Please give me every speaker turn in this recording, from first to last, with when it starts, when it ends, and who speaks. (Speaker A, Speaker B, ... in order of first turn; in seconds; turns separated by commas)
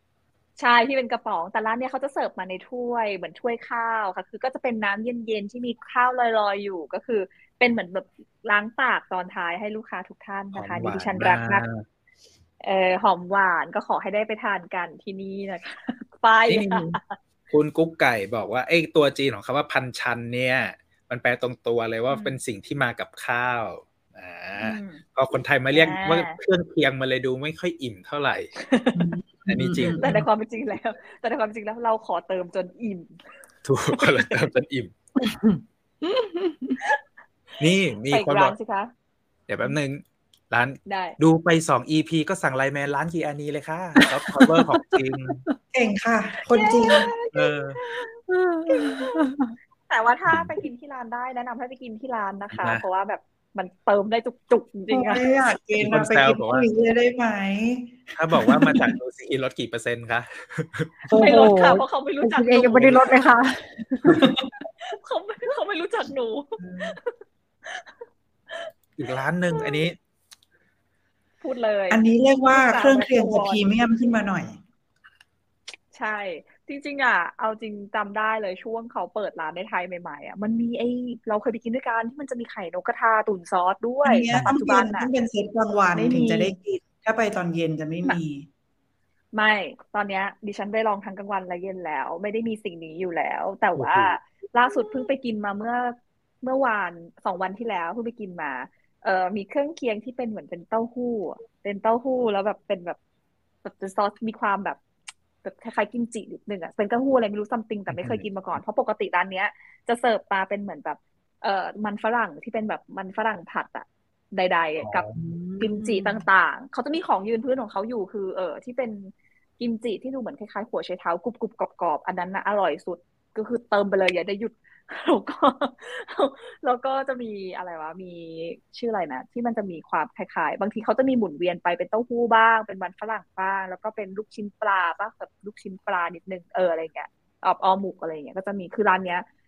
Speaker A: 0.6-11.7, Speaker B: 10.5-11.8, Speaker A: 12.6-17.1, Speaker B: 16.5-17.0, Speaker B: 17.5-28.5, Speaker A: 22.1-22.4, Speaker A: 24.6-25.0, Speaker A: 25.7-26.4, Speaker A: 28.6-29.1, Speaker C: 28.9-30.3, Speaker B: 29.5-30.1, Speaker A: 30.0-33.2, Speaker B: 33.6-34.9, Speaker A: 33.9-34.4, Speaker D: 35.2-36.8, Speaker B: 37.6-38.5, Speaker A: 37.6-38.9, Speaker B: 39.5-45.4, Speaker A: 40.9-41.2, Speaker D: 44.0-45.5, Speaker C: 45.7-47.1, Speaker A: 46.5-48.2, Speaker B: 47.3-47.8, Speaker D: 48.3-49.5, Speaker A: 48.7-49.3, Speaker A: 49.9-55.4, Speaker B: 50.3-50.6, Speaker B: 52.5-52.8, Speaker C: 54.9-58.9, Speaker B: 55.8-56.7, Speaker B: 58.2-61.0, Speaker A: 61.1-63.2, Speaker C: 61.1-61.4, Speaker D: 61.1-64.2, Speaker C: 64.1-64.5, Speaker A: 64.8-68.0, Speaker C: 66.6-67.0, Speaker B: 69.0-70.0, Speaker A: 69.5-69.9, Speaker A: 71.4-73.7, Speaker C: 71.9-74.6, Speaker A: 75.9-85.1, Speaker C: 84.0-88.5, Speaker A: 85.9-86.5, Speaker A: 89.3-103.0, Speaker B: 93.8-94.2, Speaker A: 103.6-104.8, Speaker A: 105.4-115.0, Speaker B: 107.9-108.3, Speaker B: 114.8-115.2, Speaker D: 115.2-116.2, Speaker A: 115.6-139.2